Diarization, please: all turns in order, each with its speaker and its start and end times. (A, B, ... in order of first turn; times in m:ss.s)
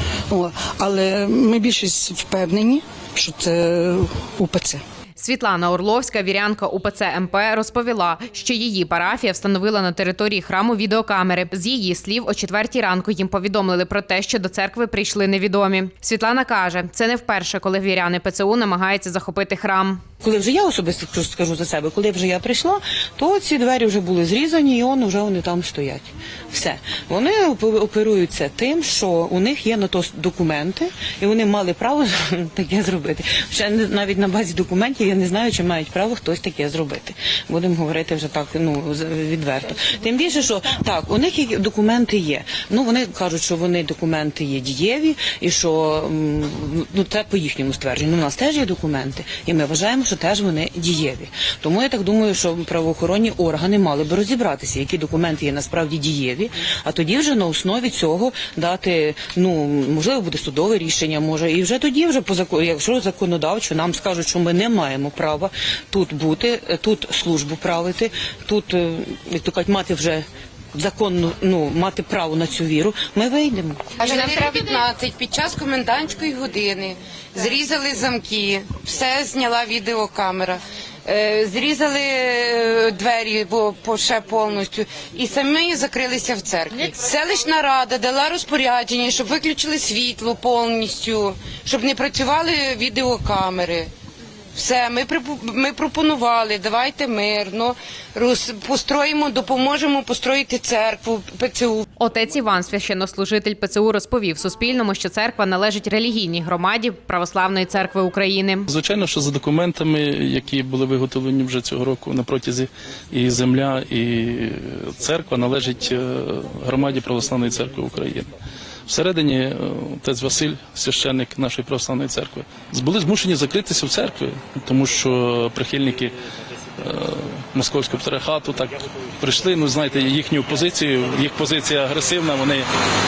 0:00.3-0:04.8 A
0:05.2-0:20.0 B
0:20.2-1:13.9 C
1:14.0-1:33.9 D
1:34.5-1:41.8 D
1:42.0-1:48.7 B
1:48.7-1:58.3 E
1:58.9-2:06.1 E
2:06.8-2:12.6 E